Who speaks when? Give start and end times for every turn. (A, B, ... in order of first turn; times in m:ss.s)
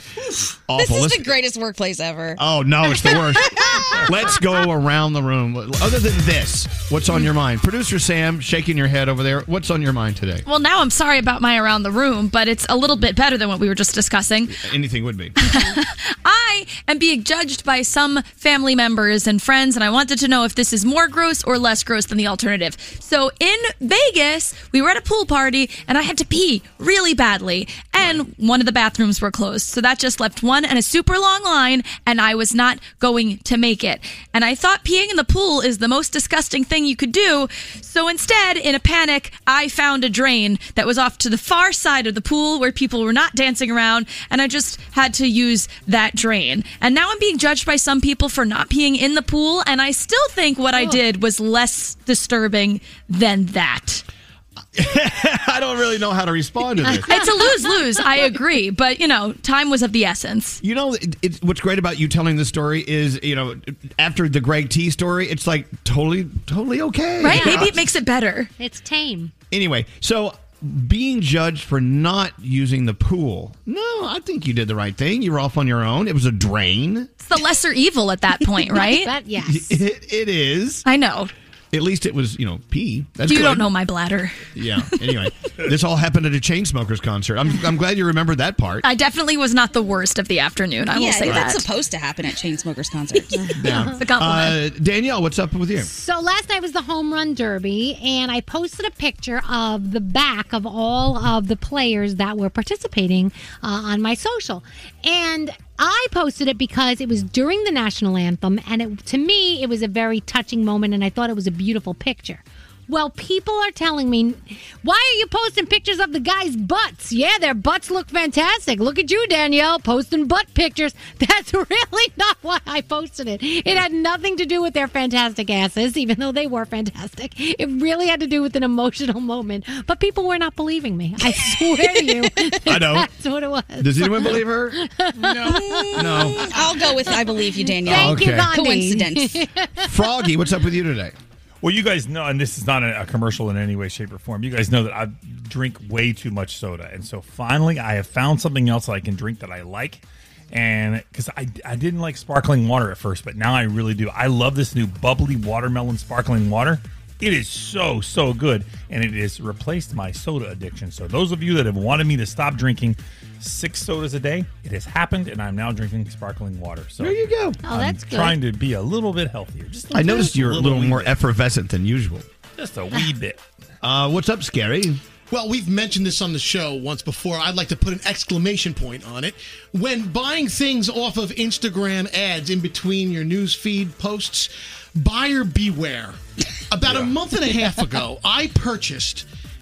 0:00.7-0:01.3 A
0:00.8-0:02.4 B
0:02.4-0:10.4 A
0:03.1-0:04.0 B
0:10.4-0:14.6 C
0:14.6-0:15.3 A
0:15.4-0:54.0 C
0:54.7-0:57.1 A
0:56.9-0:57.3 D
0:57.0-1:00.6 C
1:00.6-1:07.8 A
1:07.2-1:08.5 C
1:07.2-1:07.7 D
1:08.6-1:09.3 D
1:09.5-1:17.1 A
1:17.2-1:19.1 C
1:18.7-1:19.8 D
1:19.4-1:20.8 A
1:20.8-1:21.3 C
1:21.7-1:23.7 A
1:23.2-1:24.5 C
1:24.5-1:28.8 A
1:28.8-1:31.6 C
1:30.9-1:33.5 B
1:31.2-1:31.5 A
1:33.6-1:35.9 A
1:34.0-1:34.6 C
1:35.8-2:16.4 D
2:12.6-2:13.1 A
2:13.8-2:14.8 A
2:15.3-2:19.4 B
2:16.0-2:16.5 A
2:17.1-2:19.9 D
2:17.8-2:18.5 A
2:19.8-2:21.1 A
2:21.6-2:51.2 E
2:47.0-2:47.6 A
2:47.6-2:48.4 D
2:49.9-2:52.2 A
2:52.6-2:53.4 E
2:53.8-2:55.0 A
2:55.3-3:06.2 F
3:06.7-3:09.2 F